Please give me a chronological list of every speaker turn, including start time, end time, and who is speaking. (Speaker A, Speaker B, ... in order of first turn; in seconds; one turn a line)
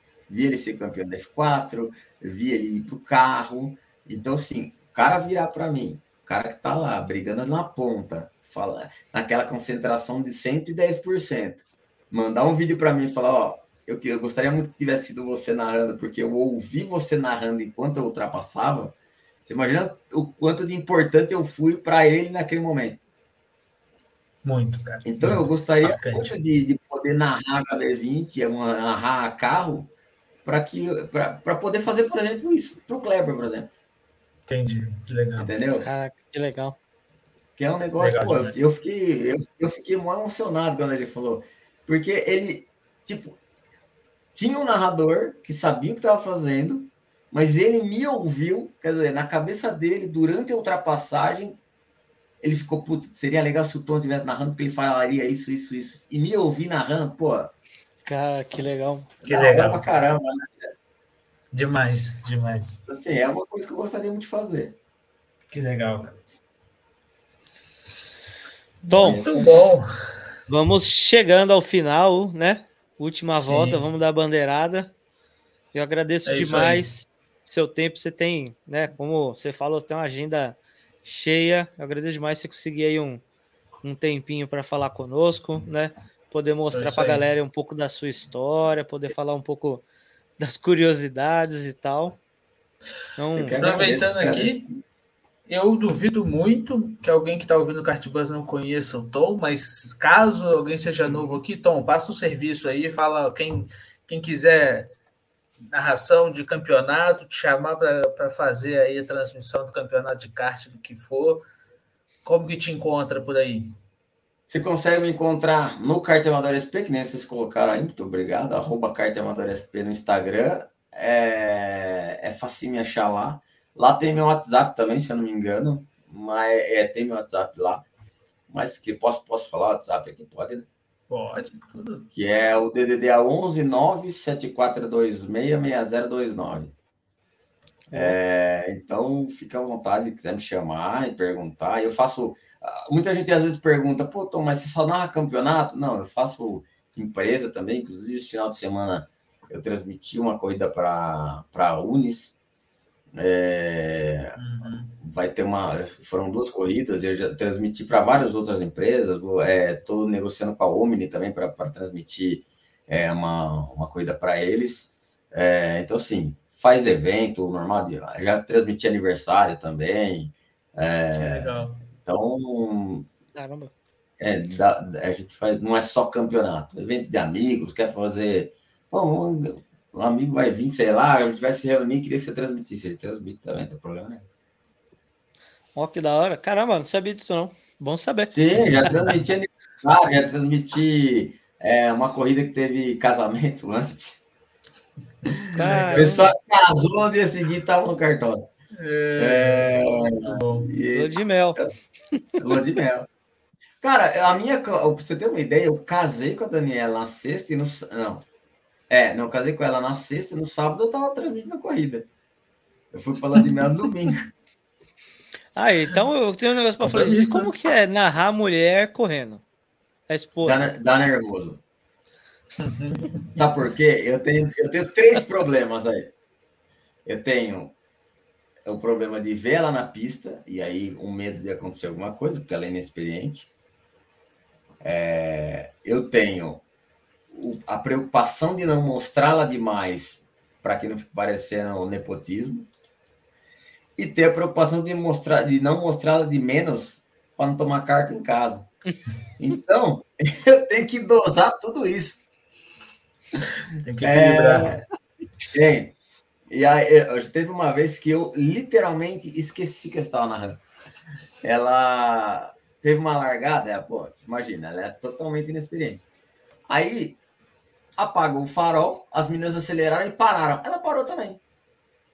Speaker A: 0.3-23.0
Speaker B: 24.4-26.4
Speaker A: 25.1-29.9
Speaker A: 30.4-33.7
Speaker B: 34.5-35.5
Speaker A: 35.4-35.9
Speaker C: 35.8-36.8
Speaker A: 37.6-43.4
Speaker B: 38.0-38.6
Speaker A: 44.3-51.6
Speaker A: 52.4-57.5
Speaker C: 58.0-59.1
Speaker A: 59.2-60.7
Speaker B: 59.2-59.9
Speaker B: 61.5-62.8
Speaker A: 62.9-64.8
Speaker B: 65.5-66.2
Speaker B: 68.9-69.8
Speaker C: 68.9-69.3
Speaker A: 69.0-69.4
Speaker C: 70.5-74.9
Speaker B: 73.4-73.8
Speaker C: 75.7-83.2
Speaker B: 76.3-76.9
Speaker C: 83.8-89.8
Speaker B: 86.7-87.2
Speaker C: 90.4-92.2
Speaker C: 93.2-93.6
Speaker A: 93.4-94.7
Speaker B: 93.6-94.7
Speaker B: 95.5-104.9
Speaker B: 105.7-111.4
Speaker B: 112.2-113.7
Speaker A: 114.5-127.8
Speaker A: 128.5-130.7
Speaker B: 131.1-132.1
Speaker A: 132.1-136.7
Speaker C: 137.9-138.2
Speaker A: 137.9-152.4
Speaker A: 153.2-154.3
Speaker B: 154.4-155.0
Speaker A: 155.0-173.1
Speaker B: 171.2-171.8
Speaker C: 173.3-173.7
Speaker A: 174.2-184.2
Speaker C: 185.8-188.4
Speaker A: 188.3-194.2
Speaker B: 195.5-196.2
Speaker C: 195.5-196.3
Speaker A: 195.9-198.5
Speaker B: 198.8-200.7
Speaker A: 199.2-201.7
Speaker C: 200.9-201.6
Speaker A: 202.4-203.1
Speaker A: 203.8-208.3
Speaker A: 208.9-212.1
Speaker A: 212.9-214.3
Speaker C: 215.6-219.4
Speaker B: 216.8-217.5
Speaker C: 220.1-220.7
Speaker A: 220.4-221.6
Speaker B: 222.6-223.3
Speaker A: 223.3-226.1
Speaker A: 227.1-227.8
Speaker A: 228.7-233.5
Speaker A: 234.8-236.6
Speaker A: 237.3-242.7
Speaker A: 244.0-248.7
Speaker A: 249.4-252.2
Speaker B: 253.8-254.8
Speaker A: 254.0-254.8
Speaker A: 255.5-255.9
Speaker A: 256.5-260.6
Speaker A: 261.4-266.0
Speaker A: 266.7-267.2
Speaker A: 268.0-271.4